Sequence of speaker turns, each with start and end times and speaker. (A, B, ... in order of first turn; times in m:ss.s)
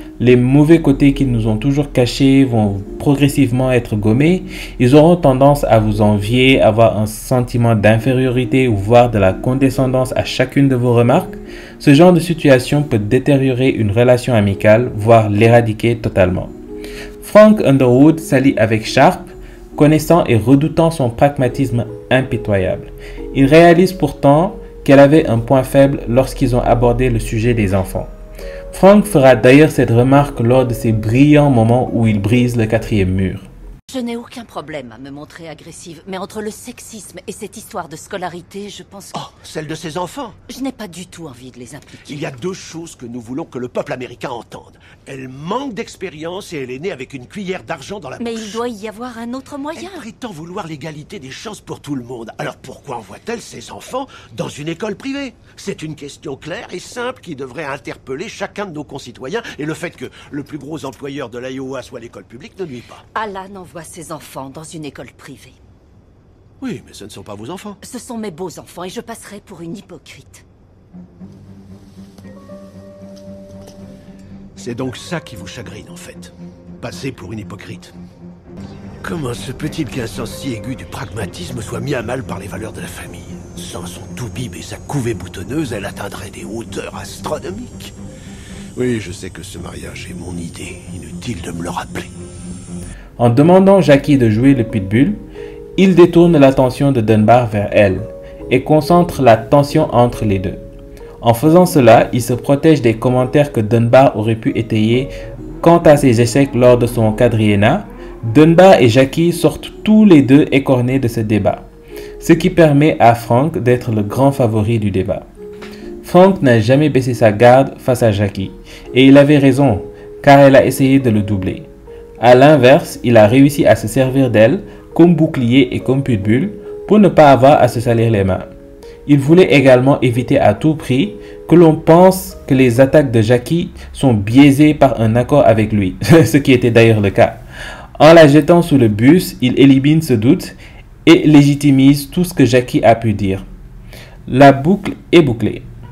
0:00.2-0:16.5 A
0:17.2-0:28.1 A
0:28.7-0:33.5 A
0:33.9-0:39.3 B
0:39.2-0:40.4 C
0:40.5-0:42.3 B
0:42.0-0:48.6 C
0:48.2-0:50.0 B
0:49.8-1:03.1 C
1:03.2-1:05.6 B
1:06.6-1:07.8 C
1:07.8-1:10.4 B
1:14.6-1:17.9 C
1:19.0-1:28.0 C
1:28.8-1:32.1 C
1:33.2-1:35.2 A
1:35.8-1:40.6 A
1:41.2-1:51.7 A
1:52.2-1:55.3 A
1:56.0-2:01.7 A
2:02.2-2:08.5 A
2:09.1-2:17.4 A
2:18.0-2:23.5 A
2:24.3-2:25.7 A